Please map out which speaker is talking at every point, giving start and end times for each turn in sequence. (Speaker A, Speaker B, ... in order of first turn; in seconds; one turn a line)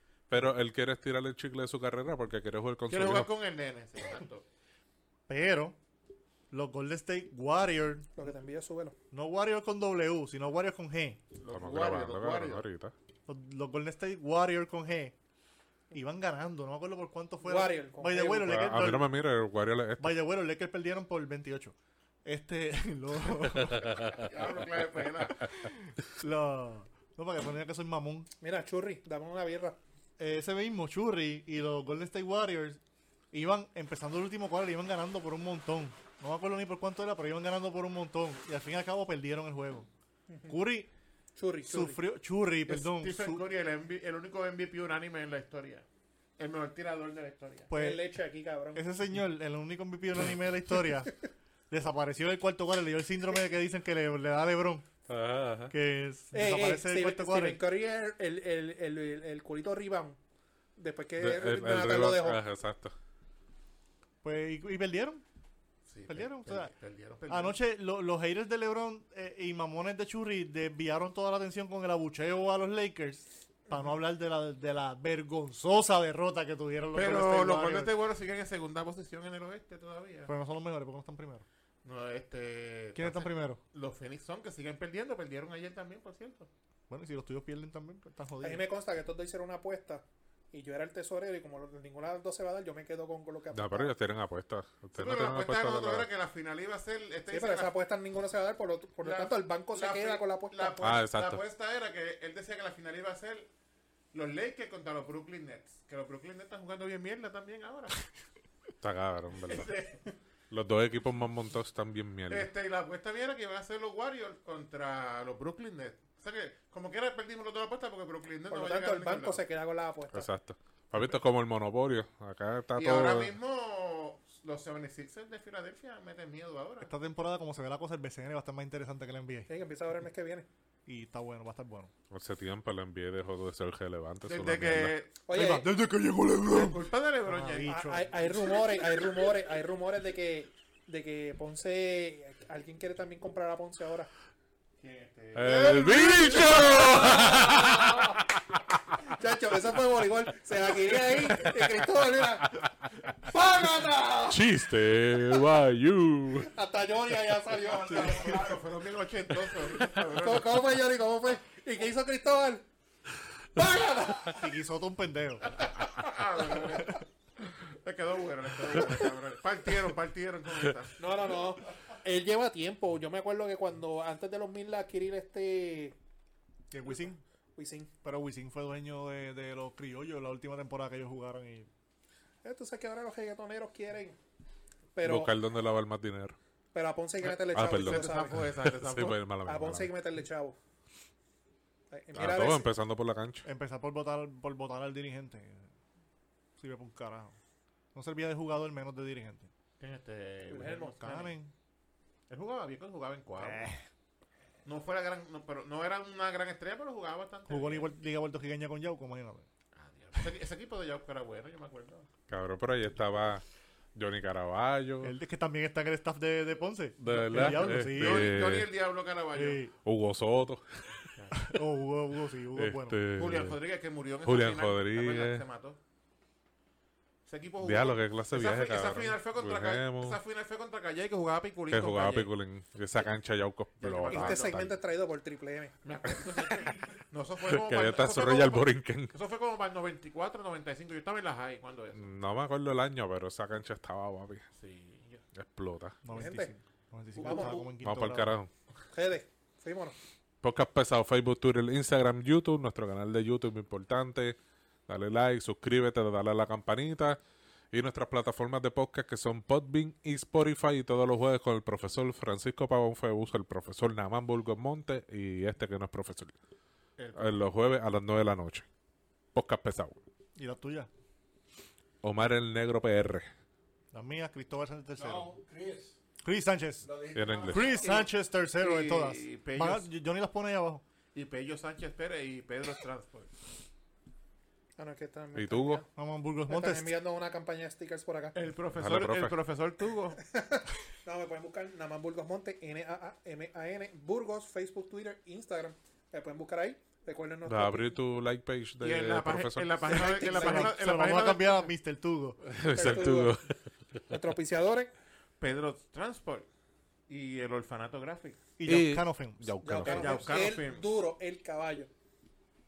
Speaker A: 0.3-3.3
Speaker B: 2.9-4.5
Speaker C: 5.3-5.8
Speaker C: 6.5-8.1
Speaker D: 8.2-8.9
Speaker C: 9.1-11.2
Speaker B: 11.4-12.7
Speaker A: 11.5-12.9
Speaker C: 13.3-15.2
Speaker C: 15.9-19.1
Speaker D: 17.4-18.7
Speaker A: 18.4-20.1
Speaker C: 20.0-24.0
Speaker A: 23.7-24.3
Speaker B: 24.1-25.5
Speaker C: 25.4-28.3
Speaker D: 28.4-29.8
Speaker C: 30.2-32.8
Speaker C: 33.3-39.9
Speaker D: 40.3-40.6
Speaker C: 40.5-40.9
Speaker D: 41.4-42.0
Speaker C: 41.6-43.5
Speaker B: 42.7-45.9
Speaker B: 46.4-47.7
Speaker C: 47.7-48.1
Speaker D: 47.7-48.8
Speaker C: 48.7-54.9
Speaker A: 55.1-55.8
Speaker C: 55.7-57.6
Speaker D: 56.3-60.2
Speaker D: 60.8-62.4
Speaker A: 61.2-63.0
Speaker C: 64.2-65.2
Speaker B: 65.9-67.6
Speaker C: 66.1-66.7
Speaker C: 67.3-77.9
Speaker B: 76.9-80.3
Speaker C: 80.3-81.5
Speaker B: 81.8-86.5
Speaker C: 83.0-83.6
Speaker C: 86.9-88.7
Speaker D: 88.4-93.9
Speaker A: 93.5-96.1
Speaker B: 95.0-97.7
Speaker D: 97.3-100.8
Speaker B: 99.0-103.5
Speaker A: 100.8-101.4
Speaker B: 104.1-108.1
Speaker A: 108.8-109.7
Speaker B: 109.5-110.0
Speaker A: 110.5-112.5
Speaker B: 112.3-119.4
Speaker D: 118.5-120.3
Speaker A: 120.1-123.3
Speaker B: 122.8-126.9
Speaker C: 126.8-129.5
Speaker D: 129.5-130.5
Speaker C: 130.9-131.9
Speaker A: 132.1-134.9
Speaker B: 134.3-135.2
Speaker D: 135.3-135.7
Speaker C: 135.3-138.1
Speaker B: 136.5-137.8
Speaker D: 137.7-144.1
Speaker B: 144.8-147.3
Speaker A: 145.3-148.1
Speaker D: 146.8-148.1
Speaker D: 149.0-152.6
Speaker A: 151.3-151.7
Speaker D: 153.2-154.4
Speaker A: 154.3-156.5
Speaker D: 156.4-158.5
Speaker B: 157.9-160.6
Speaker E: 157.9-158.6
Speaker D: 160.1-162.7
Speaker D: 163.6-164.4
Speaker C: 164.3-165.6
Speaker B: 165.6-171.0
Speaker D: 171.0-176.0
Speaker C: 176.7-177.2
Speaker D: 177.6-177.9
Speaker C: 178.0-181.7
Speaker D: 182.4-184.2
Speaker D: 184.9-185.3
Speaker A: 185.0-186.4
Speaker D: 186.7-188.4
Speaker B: 187.2-189.2
Speaker A: 187.5-189.9
Speaker D: 189.5-190.6
Speaker D: 191.9-192.7
Speaker A: 192.1-193.5
Speaker C: 193.4-195.7
Speaker C: 196.6-197.4
Speaker C: 197.9-199.5
Speaker B: 199.8-201.3
Speaker D: 200.5-201.0
Speaker C: 200.8-201.5
Speaker B: 202.3-203.7
Speaker C: 203.4-203.8
Speaker B: 204.7-207.9
Speaker C: 207.5-209.5
Speaker B: 209.7-212.1
Speaker A: 212.3-213.4
Speaker A: 213.9-215.2
Speaker C: 215.0-218.4
Speaker A: 217.0-218.7
Speaker B: 217.2-219.7
Speaker C: 219.3-219.7
Speaker A: 219.8-221.0
Speaker B: 221.1-221.4
Speaker C: 221.3-223.0
Speaker A: 222.6-223.6
Speaker B: 223.2-225.8
Speaker A: 224.2-225.5
Speaker B: 227.3-232.3
Speaker A: 227.6-230.2
Speaker A: 231.7-234.8
Speaker B: 233.8-234.5
Speaker D: 234.1-235.8
Speaker B: 235.8-242.1
Speaker A: 237.4-239.2
Speaker A: 242.0-244.4
Speaker B: 244.5-245.2
Speaker A: 245.3-246.0
Speaker C: 246.0-248.3
Speaker D: 246.1-246.5
Speaker D: 247.2-247.7
Speaker B: 247.3-247.6
Speaker A: 247.8-248.5
Speaker D: 248.9-250.0
Speaker A: 250.4-257.2
Speaker A: 257.7-266.3
Speaker B: 267.0-267.5
Speaker A: 267.1-268.7
Speaker A: 269.3-270.0
Speaker C: 270.4-270.9
Speaker A: 272.0-273.3
Speaker C: 273.9-275.3
Speaker E: 275.0-276.0
Speaker C: 276.2-276.9
Speaker E: 276.8-277.9
Speaker A: 277.1-277.8
Speaker C: 277.5-280.9
Speaker B: 277.8-279.9
Speaker B: 281.1-283.3
Speaker D: 284.8-285.9
Speaker A: 285.4-285.9
Speaker C: 285.9-287.0
Speaker D: 286.5-288.4
Speaker B: 288.4-290.2
Speaker A: 288.8-289.4
Speaker D: 290.3-298.0
Speaker A: 297.5-299.9
Speaker B: 298.8-301.7
Speaker D: 299.9-300.7
Speaker C: 299.9-302.4
Speaker A: 302.4-303.6
Speaker D: 302.7-303.4
Speaker D: 304.1-304.9
Speaker B: 305.4-306.5
Speaker B: 307.1-308.4
Speaker C: 308.6-309.5
Speaker A: 308.6-310.3
Speaker D: 309.6-311.9
Speaker B: 309.8-310.9